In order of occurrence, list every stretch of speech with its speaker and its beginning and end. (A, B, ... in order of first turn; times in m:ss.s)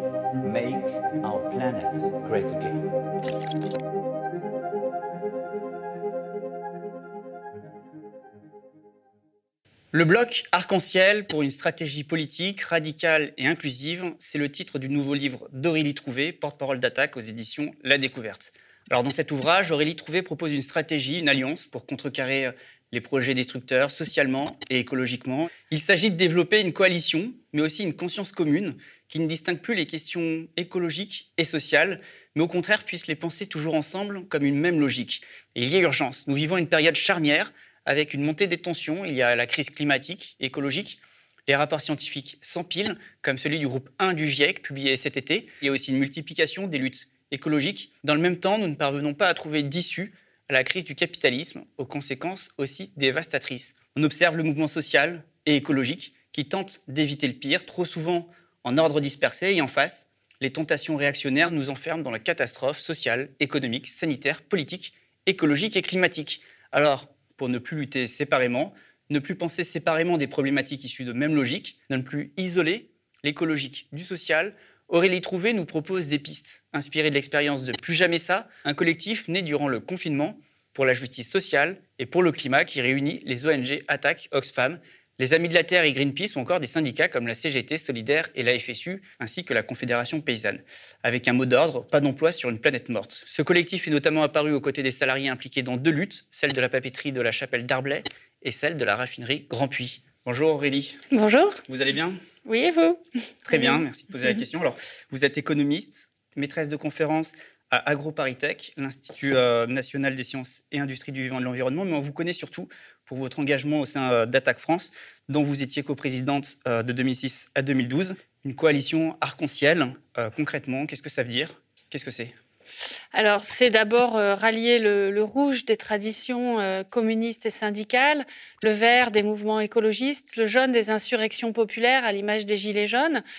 0:00.4-0:02.8 A
0:09.9-1:41.0 B
1:41.1-1:41.6 C
1:41.7-1:42.2 B
1:42.4-1:43.8 C
1:43.4-2:02.3 B
2:03.1-2:13.2 C